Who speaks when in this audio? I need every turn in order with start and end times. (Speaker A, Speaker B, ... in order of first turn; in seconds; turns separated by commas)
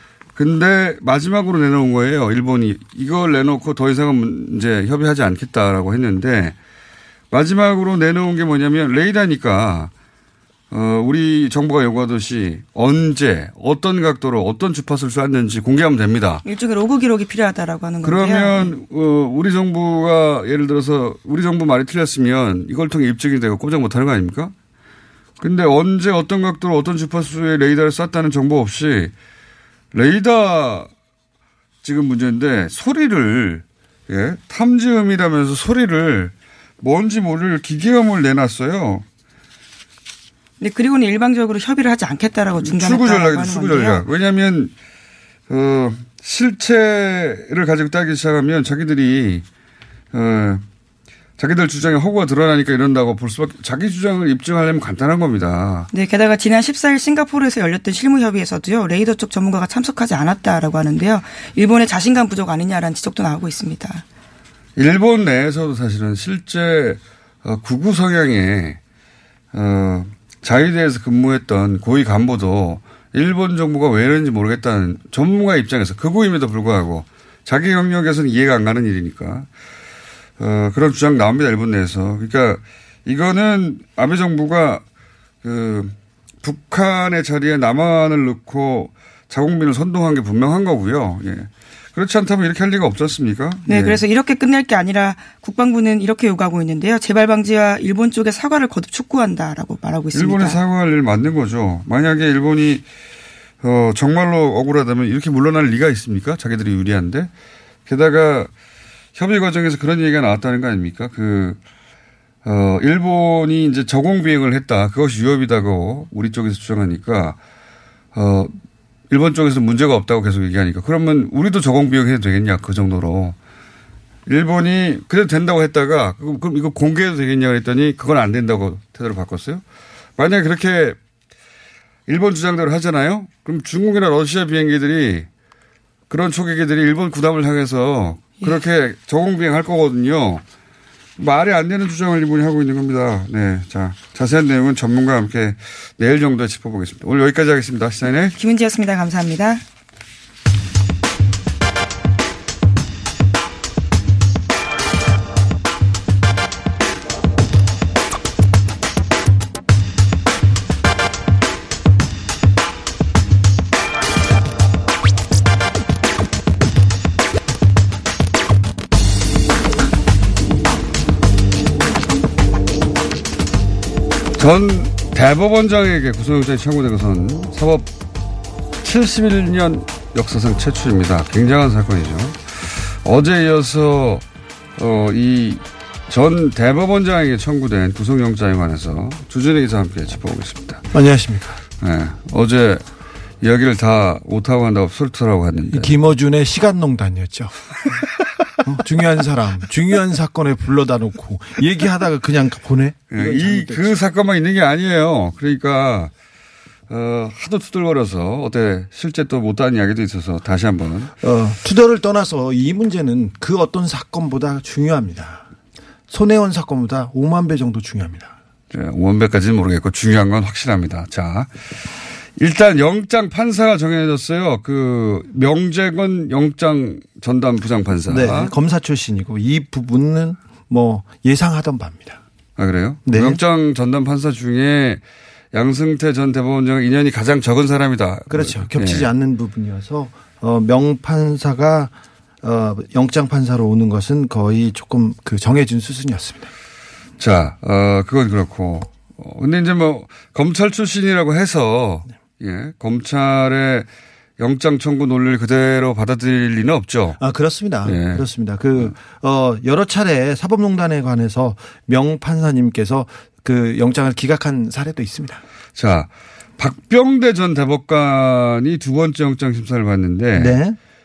Speaker A: 0.4-6.6, Speaker A: 7.3-9.9, Speaker A: 10.7-16.4, Speaker B: 16.4-18.7, Speaker A: 18.0-24.5, Speaker A: 25.4-29.1, Speaker A: 29.9-30.9, Speaker A: 31.8-39.0, Speaker B: 40.6-44.0, Speaker A: 42.6-44.7, Speaker A: 45.5-49.4, Speaker A: 50.1-50.6, Speaker A: 51.4-55.9, Speaker B: 55.9-64.0, Speaker A: 64.8-68.8, Speaker A: 69.5-79.5, Speaker A: 80.4-84.8, Speaker A: 85.4-94.0, Speaker B: 93.7-100.6, Speaker A: 100.1-102.8, Speaker A: 103.6-107.3, Speaker A: 107.9-108.5, Speaker A: 109.2-111.6, Speaker A: 112.4-117.4, Speaker A: 118.1-118.5, Speaker A: 119.1-123.4, Speaker A: 124.3-129.6, Speaker A: 130.2-131.0, Speaker A: 132.1-135.3, Speaker A: 136.1-140.4, Speaker A: 141.2-148.3, Speaker B: 148.4-149.6, Speaker A: 174.4-177.9, Speaker A: 178.8-184.2, Speaker A: 184.8-190.9, Speaker C: 190.9-191.6, Speaker A: 191.8-192.8, Speaker A: 193.4-195.9, Speaker C: 195.7-197.5, Speaker C: 198.6-204.0, Speaker A: 203.1-206.1, Speaker A: 206.9-211.1, Speaker C: 211.2-215.4, Speaker C: 216.1-218.3, Speaker A: 218.7-221.5, Speaker A: 222.4-228.5, Speaker C: 228.1-232.2, Speaker A: 232.6-235.0, Speaker C: 233.1-233.4, Speaker A: 235.5-239.1, Speaker C: 238.3-246.5, Speaker A: 247.2-253.9, Speaker A: 254.4-257.2, Speaker C: 257.2-265.4, Speaker A: 257.9-258.2, Speaker A: 265.8-270.6, Speaker C: 270.4-270.8